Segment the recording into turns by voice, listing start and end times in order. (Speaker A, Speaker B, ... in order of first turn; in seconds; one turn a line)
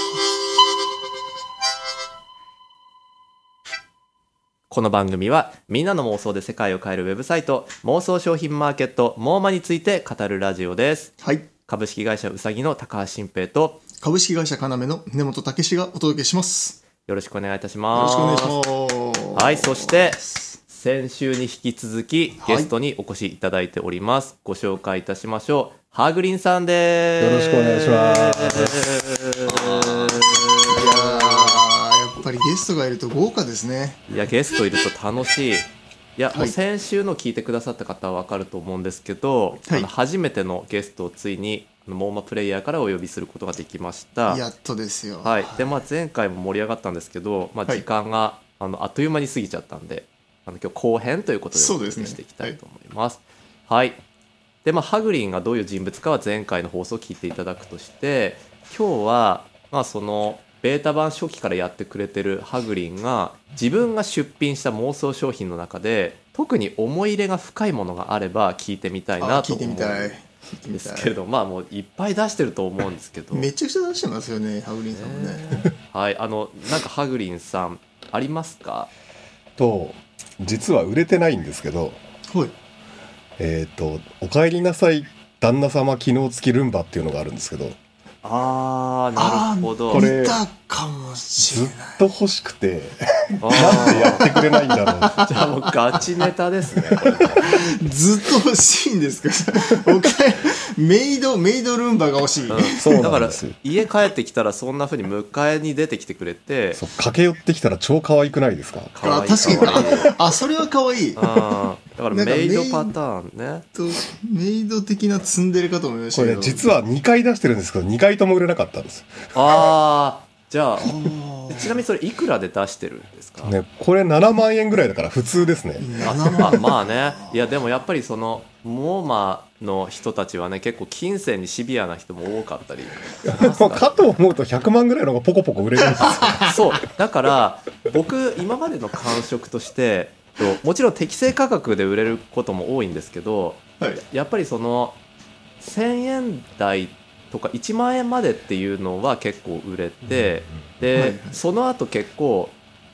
Speaker A: 4.7-11.1
Speaker B: 11.2-11.5
Speaker A: 11.7-13.8
Speaker B: 14.0-16.8
Speaker A: 17.0-18.6
Speaker B: 17.9-20.6
Speaker A: 19.3-31.6
Speaker B: 22.4-22.7
Speaker C: 27.2-28.8
Speaker B: 29.5-34.0
Speaker A: 34.1-44.4
Speaker B: 44.3-45.5
Speaker A: 45.2-54.0
Speaker B: 51.5-52.6
Speaker A: 54.6-70.2
Speaker B: 69.2-71.1
Speaker A: 70.7-73.5
Speaker B: 73.3-75.4
Speaker A: 74.9-78.9
Speaker C: 79.6-82.0
Speaker C: 83.4-87.8
Speaker A: 88.2-90.1
Speaker B: 89.2-92.0
Speaker C: 89.9-90.4
Speaker C: 91.4-95.2
Speaker A: 93.4-94.3
Speaker B: 93.5-95.5
Speaker A: 95.2-97.6
Speaker B: 97.4-103.2
Speaker A: 102.5-106.8
Speaker C: 102.7-103.5
Speaker C: 106.7-108.9
Speaker A: 108.9-110.1
Speaker B: 109.0-111.3
Speaker C: 109.5-110.0
Speaker A: 111.2-113.7
Speaker B: 112.1-112.9
Speaker B: 113.7-116.7
Speaker C: 116.1-119.1
Speaker A: 119.3-123.5
Speaker B: 120.8-121.8
Speaker C: 123.4-125.9
Speaker B: 125.8-127.3
Speaker A: 126.0-134.1
Speaker C: 133.2-136.6
Speaker B: 136.1-136.5
Speaker A: 136.4-145.0
Speaker A: 145.6-152.5
Speaker B: 150.9-151.4